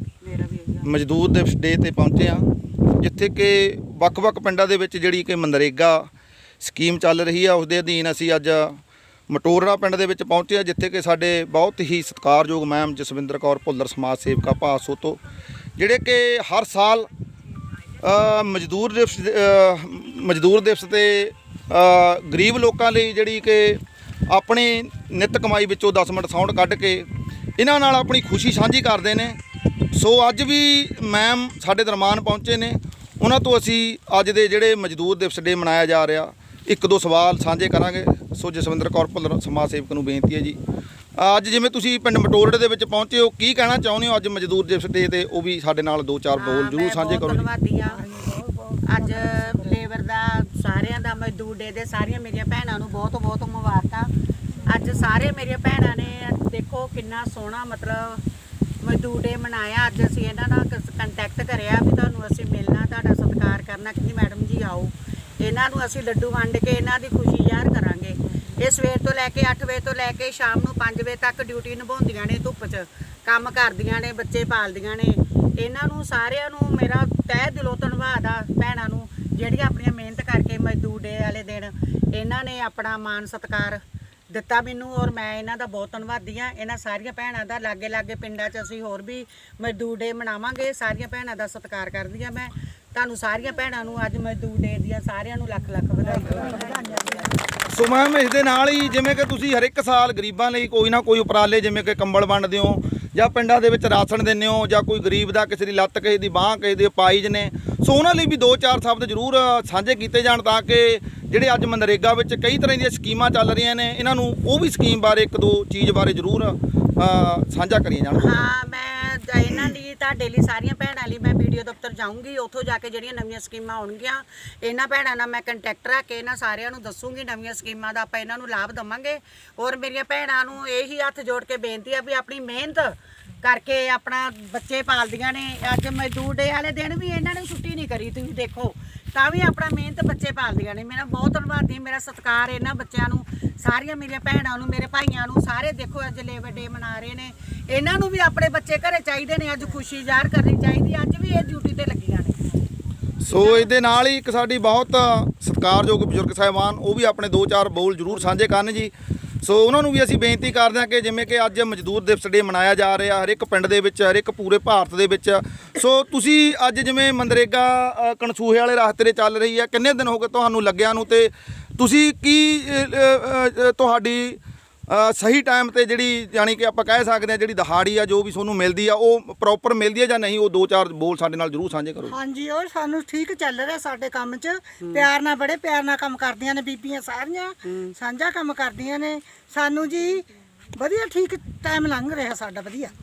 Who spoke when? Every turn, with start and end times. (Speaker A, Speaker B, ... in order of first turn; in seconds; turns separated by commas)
Speaker A: 0.2-0.9, Speaker B: 0.8-6.1, Speaker B: 6.6-15.2, Speaker B: 15.8-17.1, Speaker B: 18.0-29.4, Speaker B: 29.9-40.6, Speaker B: 41.2-47.5, Speaker A: 46.4-48.0, Speaker C: 47.9-49.8, Speaker A: 48.9-54.1, Speaker A: 54.7-58.2, Speaker A: 58.8-83.8, Speaker A: 84.3-97.1, Speaker C: 96.3-97.2, Speaker B: 97.7-118.4, Speaker A: 118.1-152.4, Speaker B: 153.2-158.9, Speaker A: 153.3-153.7, Speaker B: 159.4-182.2, Speaker C: 182.1-192.9, Speaker A: 184.8-185.1, Speaker A: 187.7-187.9